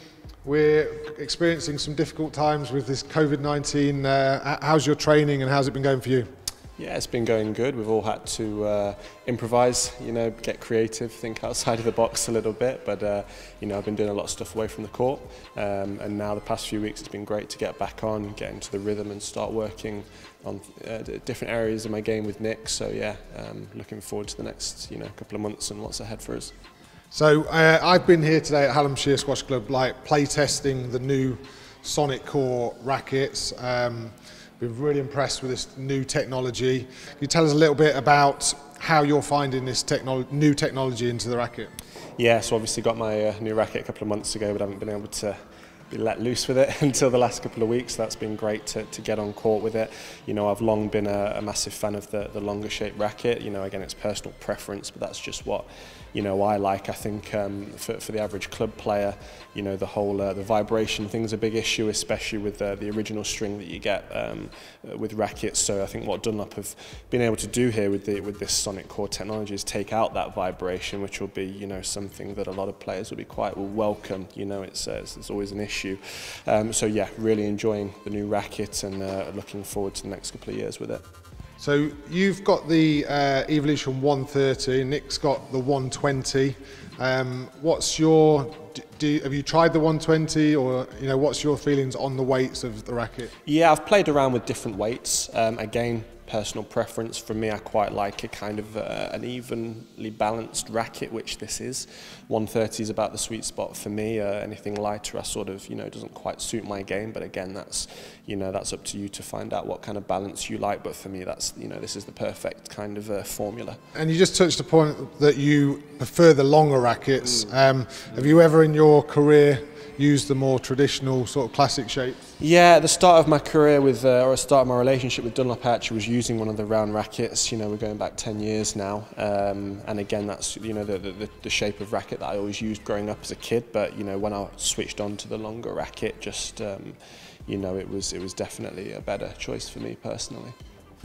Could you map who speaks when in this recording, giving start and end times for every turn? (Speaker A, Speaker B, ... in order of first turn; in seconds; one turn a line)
Speaker A: 0.4-6.3
Speaker B: 6.8-26.5
Speaker A: 27.1-41.7
Speaker B: 42.2-45.4
Speaker B: 45.9-81.0
Speaker A: 81.6-93.3
Speaker B: 93.5-113.8
Speaker A: 113.9-122.2
Speaker B: 122.4-140.5